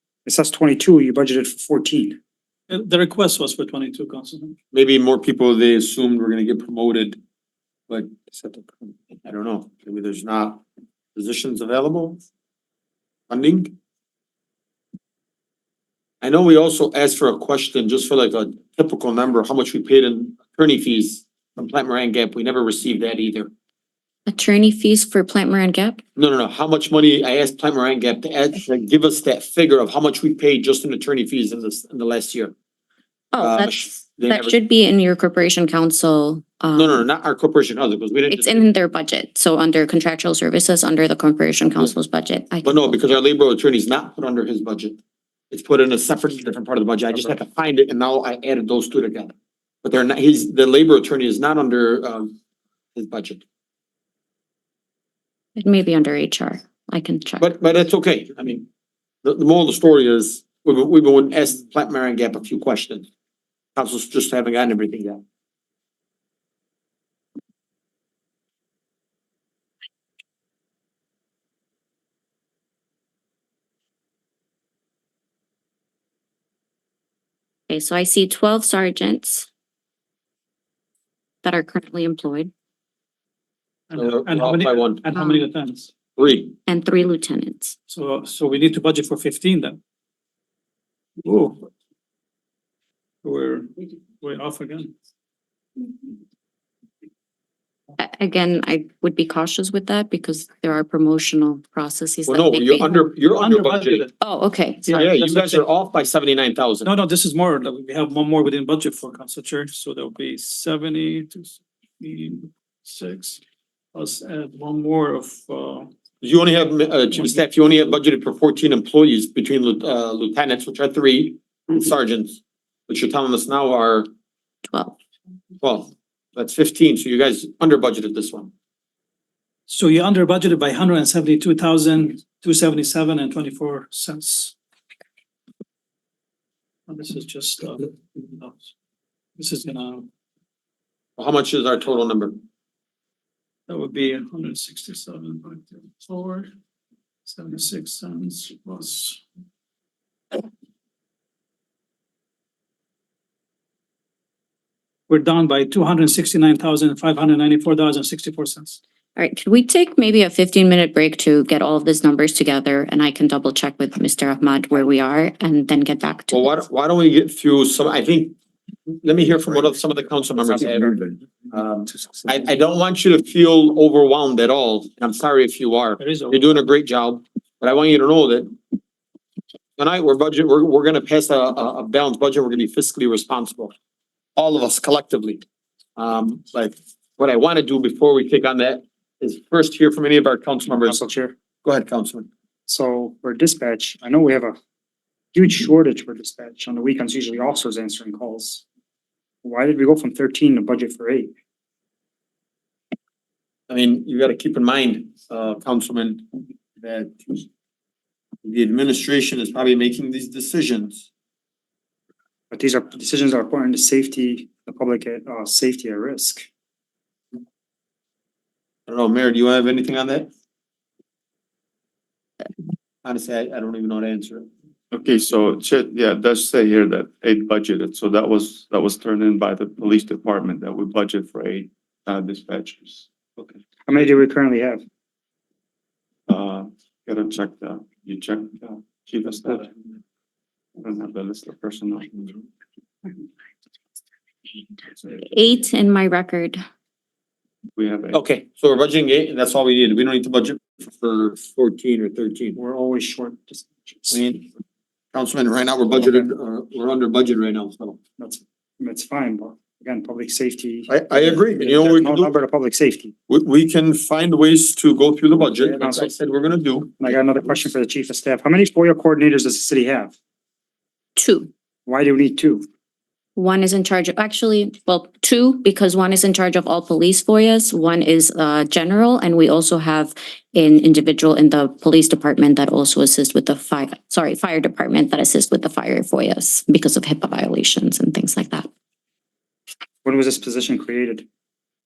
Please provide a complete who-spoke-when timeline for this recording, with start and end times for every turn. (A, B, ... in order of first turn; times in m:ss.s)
0:00.2-0:02.2 A
0:02.7-0:04.5 B
0:04.7-0:07.2 C
0:08.3-0:08.7 A
0:09.2-0:10.6 C
0:11.1-0:12.2 C
0:13.3-0:13.7 C
0:16.2-0:23.5 C
0:24.2-0:26.0 D
0:26.2-0:32.5 C
0:33.3-0:37.1 D
0:33.4-0:34.6 C
0:36.7-0:38.6 C
0:38.3-0:43.1 D
0:42.6-0:45.0 C
0:45.5-0:52.3 C
0:53.0-0:53.4 C
0:55.6-0:57.5 D
0:57.4-0:58.7 C
0:59.2-1:03.1 C
1:03.8-1:05.2 C
1:17.7-1:19.5 D
1:21.4-1:22.5 D
1:23.9-1:25.9 B
1:24.0-1:25.0 C
1:25.0-1:25.5 D
1:26.2-1:26.6 C
1:26.7-1:27.7 D
1:27.9-1:29.8 B
1:31.2-1:31.6 B
1:33.2-1:33.7 B
1:34.2-1:34.9 B
1:38.0-1:43.1 D
1:42.3-1:44.0 C
1:43.1-1:44.1 B
1:44.2-1:45.0 D
1:44.8-1:45.6 B
1:45.0-1:46.9 C
1:46.8-1:53.4 B
1:53.9-1:55.9 B
1:56.2-2:04.1 C
1:57.1-1:57.4 B
2:04.7-2:05.0 D
2:05.6-2:08.5 C
2:09.7-2:14.5 B
2:16.9-2:18.7 B
2:19.4-2:20.1 B
2:21.2-2:22.4 C
2:23.7-2:26.5 B
2:27.2-2:29.2 B
2:35.1-2:38.8 B
2:39.2-2:46.6 D
2:46.3-2:48.4 C
2:49.0-2:58.5 C
2:56.0-2:56.6 B
2:59.8-3:03.7 C
3:04.4-3:05.4 C
3:06.0-3:11.0 C
3:10.8-3:11.4 A
3:11.6-3:12.3 C
3:12.7-3:14.6 A
3:15.3-3:18.6 A
3:19.4-3:21.3 A
3:23.7-3:26.2 C
3:26.8-3:27.4 C
3:28.4-3:31.0 C
3:32.5-3:36.4 A
3:38.9-3:40.3 C
3:43.0-3:44.5 C
3:44.9-3:53.5 E
3:53.9-3:54.8 A
3:56.3-3:59.7 E
4:00.8-4:02.4 E
4:05.1-4:06.6 D
4:07.8-4:08.2 E
4:08.1-4:12.5 C
4:12.5-4:14.2 A
4:14.1-4:14.4 C
4:15.1-4:18.0 C
4:15.9-4:16.3 A
4:18.2-4:23.1 A
4:20.9-4:22.3 C
4:23.3-4:27.4 C
4:25.4-4:26.1 A
4:27.0-4:30.1 A
4:31.2-4:31.5 D
4:31.8-4:32.7 A
4:33.4-4:48.7 D
4:50.0-4:51.2 A